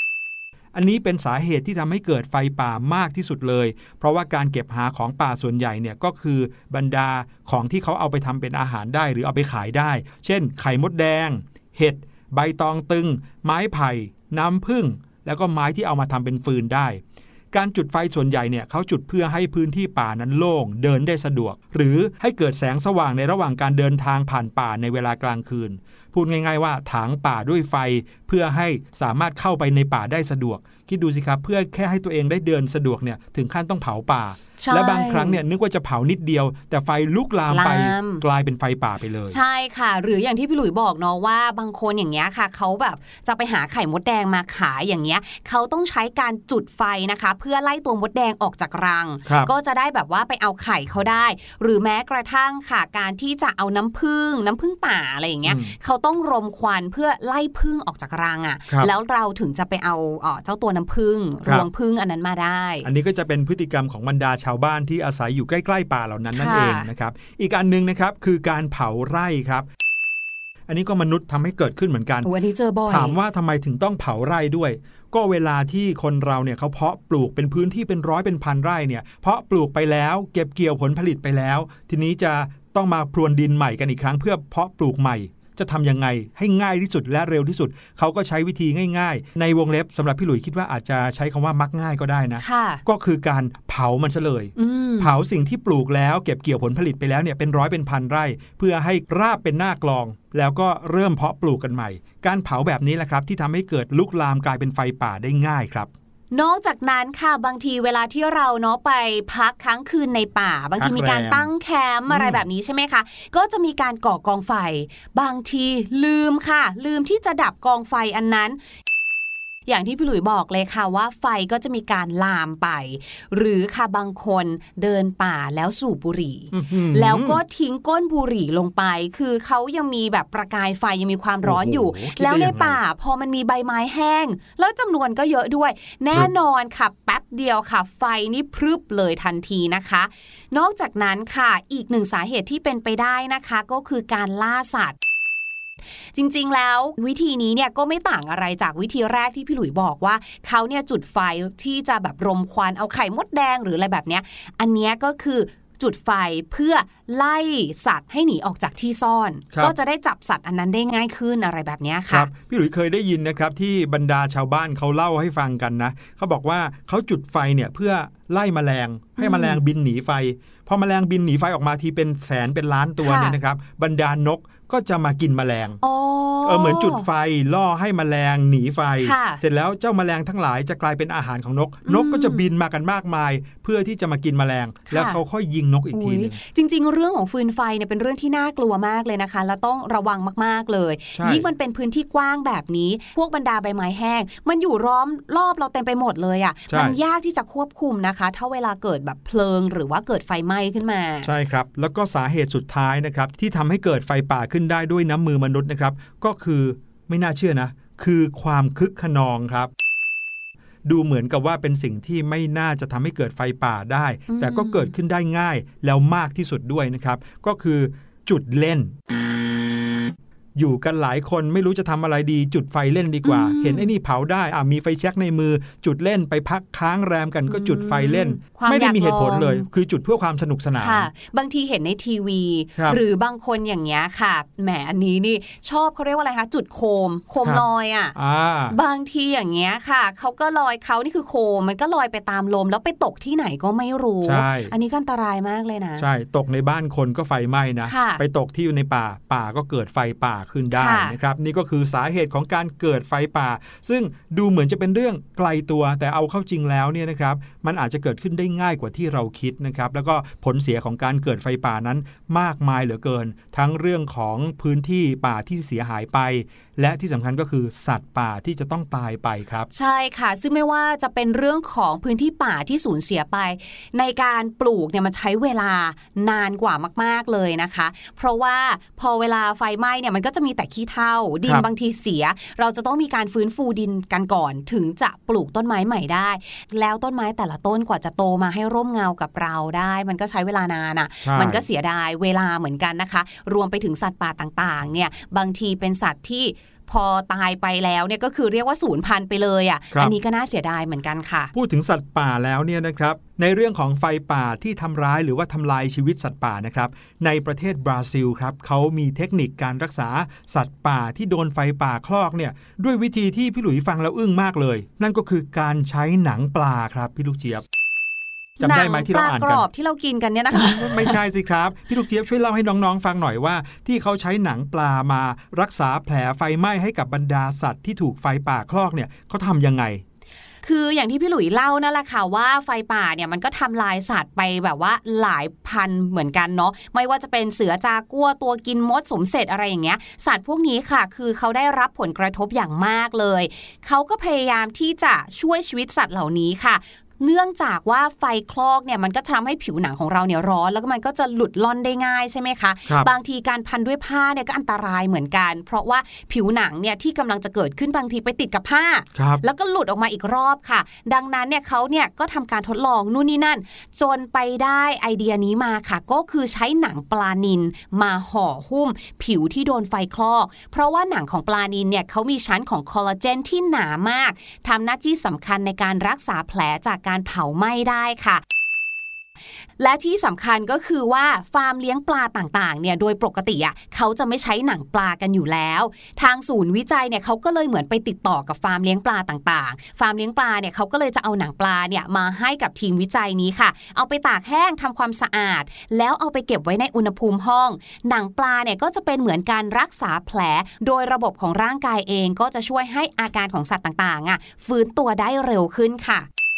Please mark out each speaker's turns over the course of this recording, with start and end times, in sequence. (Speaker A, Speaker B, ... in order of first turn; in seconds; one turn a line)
Speaker A: 0.7-39.4
Speaker B: 34.6-35.4
Speaker B: 37.5-38.2
Speaker B: 39.3-62.9
Speaker A: 55.5-55.7
Speaker A: 62.8-69.7
Speaker B: 66.3-66.9
Speaker A: 70.7-72.3
Speaker B: 72.2-73.2
Speaker A: 72.9-105.9
Speaker B: 92.4-92.8
Speaker B: 94.6-95.1
Speaker B: 106.3-118.6
Speaker A: 110.8-111.5
Speaker A: 112.1-112.4
Speaker B: 119.7-145.0
Speaker A: 126.5-127.4
Speaker A: 131.4-132.8
Speaker B: 146.1-162.3
Speaker A: 162.1-175.8
Speaker B: 169.2-169.6
Speaker B: 173.0-173.4
Speaker B: 175.8-177.1
Speaker A: 176.4-186.4
Speaker B: 179.0-179.4
Speaker B: 181.9-182.4
Speaker B: 184.9-185.2
Speaker B: 185.9-201.3
Speaker A: 191.2-191.4
Speaker A: 196.7-197.0
Speaker A: 201.2-209.7
Speaker A: 210.8-219.0
Speaker B: 214.3-214.9
Speaker A: 220.6-231.1
Speaker B: 223.2-223.9
Speaker B: 227.5-229.7
Speaker B: 230.8-238.2
Speaker A: 238.2-238.8
Speaker B: 238.7-246.1
Speaker A: 244.2-244.7
Speaker A: 246.0-269.7
Speaker B: 247.8-248.2
Speaker B: 250.7-251.2
Speaker B: 269.7-301.5
Speaker A: 291.2-291.6
Speaker A: 301.5-317.6
Speaker B: 318.6-321.2
Speaker A: 318.6-319.7
Speaker A: 320.6-330.0
Speaker B: 330.6-378.4
Speaker A: 359.1-359.4
Speaker B: 379.8-406.3